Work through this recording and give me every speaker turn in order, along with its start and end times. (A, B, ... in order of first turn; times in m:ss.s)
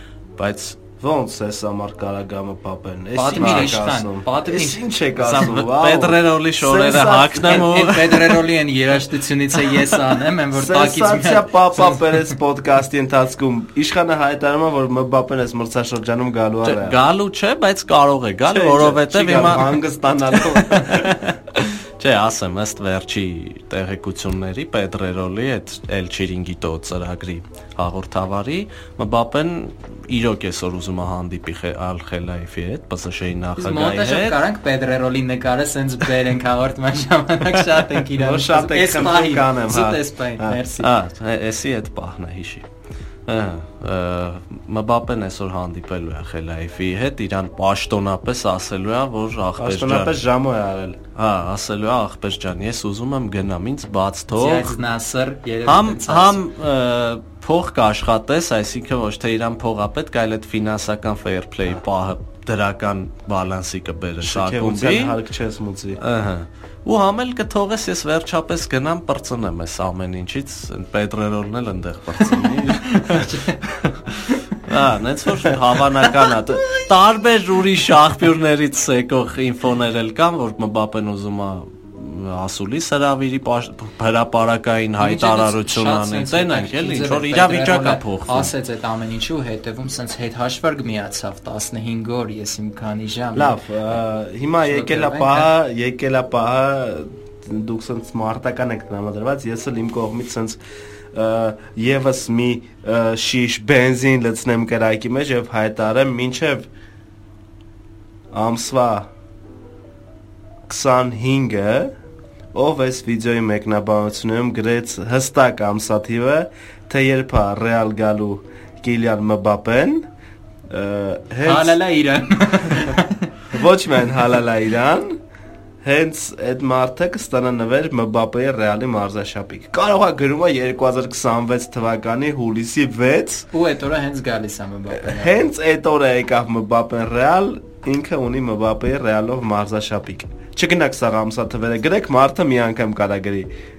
0:00.4-0:00.8 A
0:01.0-0:07.7 B
0:03.1-0:04.8 C
0:03.3-0:03.7 A
0:05.2-0:08.4 A
0:07.4-0:12.2 C
0:10.5-0:17.0 B
0:16.6-0:19.8 A
0:18.5-0:21.2 B
0:20.3-0:34.4 A
0:33.6-0:40.9 C
0:38.1-0:40.6 B
0:40.8-0:42.6 A
0:43.3-0:50.1 A
0:49.6-0:51.0 B
0:51.1-0:54.8 A
0:54.3-0:56.4 C
0:55.6-1:05.2 A
1:04.2-1:06.0 B
1:06.0-1:28.5 A
1:12.9-1:13.6 C
1:25.0-1:34.0 C
1:33.3-1:40.6 B
1:34.6-1:35.5 C
1:41.1-1:46.7 B
1:48.3-1:49.1 B
1:50.7-1:51.9 B
1:52.5-2:00.1 B
2:00.7-2:01.8 B
2:01.4-2:03.3 C
2:03.5-2:05.2 B
2:05.8-2:13.5 B
2:13.5-2:15.5 C
2:14.9-2:23.5 B